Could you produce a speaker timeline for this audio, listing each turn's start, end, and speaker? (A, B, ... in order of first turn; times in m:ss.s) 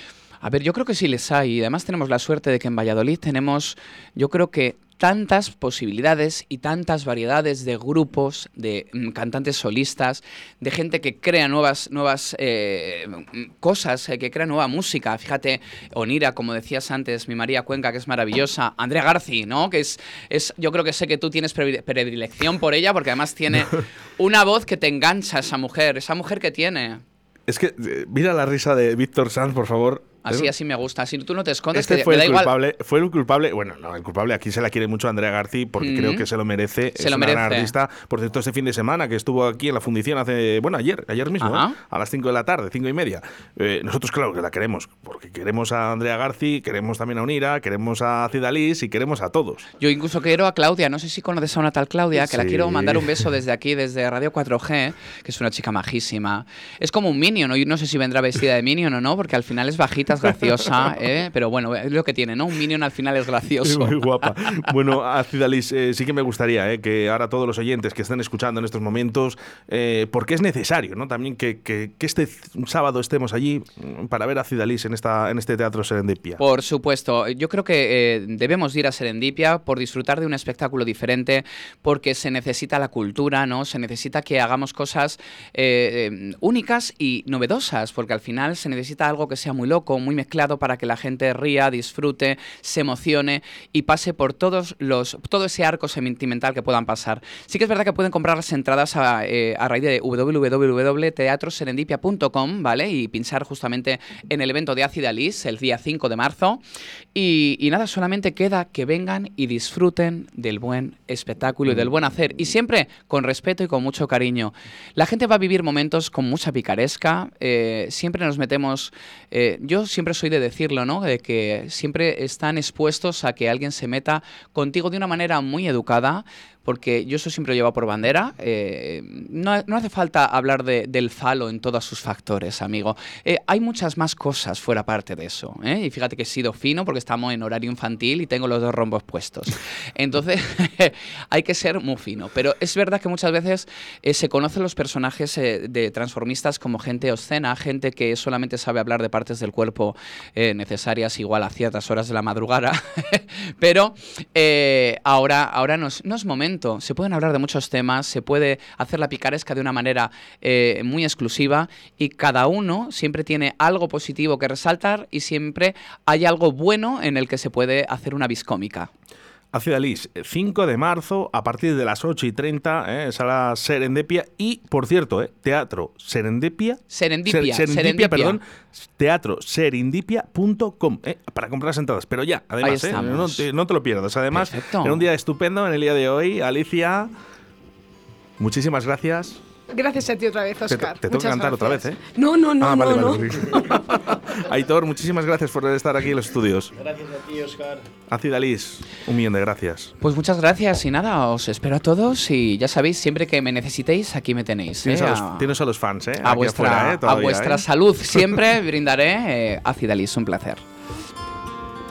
0:00.4-0:27.0 A
0:27.5-0:30.5 B
0:30.2-0:32.5 A
0:31.7-0:49.7 B
0:35.8-0:36.3 A
0:36.9-0:37.7 A
0:41.4-0:41.8 A
0:49.8-1:04.7 A
0:52.1-0:53.3 B
1:03.6-1:16.4 B
1:16.4-1:46.6 A
1:47.1-2:48.9 A
2:49.5-3:07.1 B
2:56.9-2:58.4 A
3:02.6-3:03.4 A
3:04.3-3:05.0 A
3:08.4-3:09.4 B
3:09.7-3:14.0 C
3:10.7-3:12.0 B
3:12.6-3:17.4 B
3:18.0-3:19.9 B
3:20.0-3:25.5 A
3:24.8-3:28.4 B
3:26.2-3:30.6 A